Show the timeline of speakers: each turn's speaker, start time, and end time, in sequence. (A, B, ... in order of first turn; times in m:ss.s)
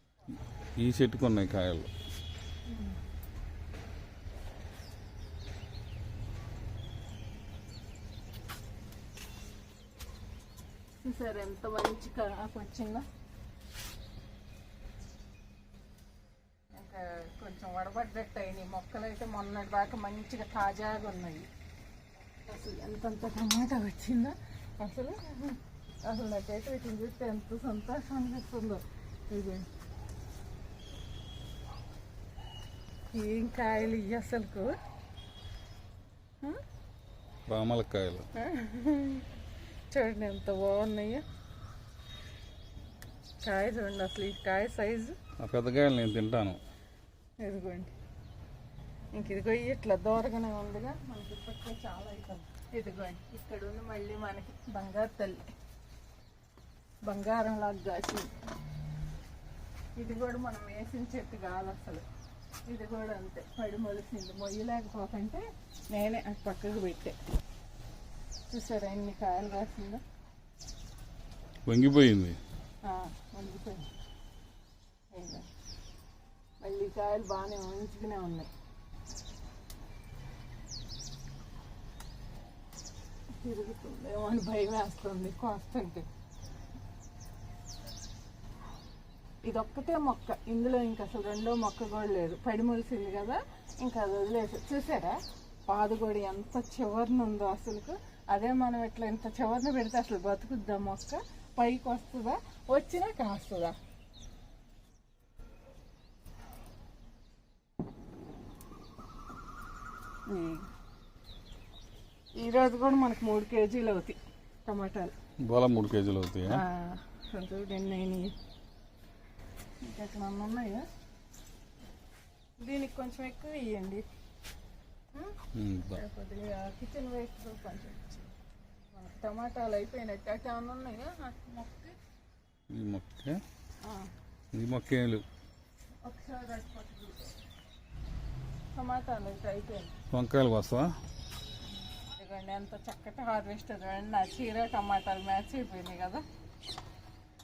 0:00.8-0:01.9 A
0:02.7-0:03.0 B
0:11.0-0:13.0 B
0:16.7-0:21.5 B
0:22.5-0:29.7 B
0:33.1-0:34.8 B
0:37.4-0:38.3 A
0:38.3-0:39.3 B
0:39.9-0:41.2 B
0:43.4-0:45.2 B
0:45.4-0:46.6 A
0:47.4-0:47.9 B
0:49.1-0:55.4 B
0:57.0-0:58.3 B
1:00.0-1:02.0 B
1:02.7-1:07.2 B
1:08.5-1:10.0 B
1:11.7-1:12.4 A
1:12.8-1:13.9 B
1:15.1-1:15.5 B
1:16.6-1:18.5 B
1:23.4-1:26.0 B
1:29.4-1:43.8 B
1:50.3-1:50.7 B
1:52.4-1:55.1 B
1:55.4-1:56.6 A
1:56.5-1:58.3 B
1:59.8-2:00.9 B
2:02.6-2:04.0 B
2:05.5-2:06.0 A
2:05.9-2:08.3 B
2:08.9-2:11.9 B
2:12.7-2:13.4 A
2:13.8-2:14.1 B
2:14.5-2:15.2 A
2:16.0-2:17.3 B
2:18.7-2:19.9 B
2:20.1-2:20.9 A
2:22.2-2:26.2 B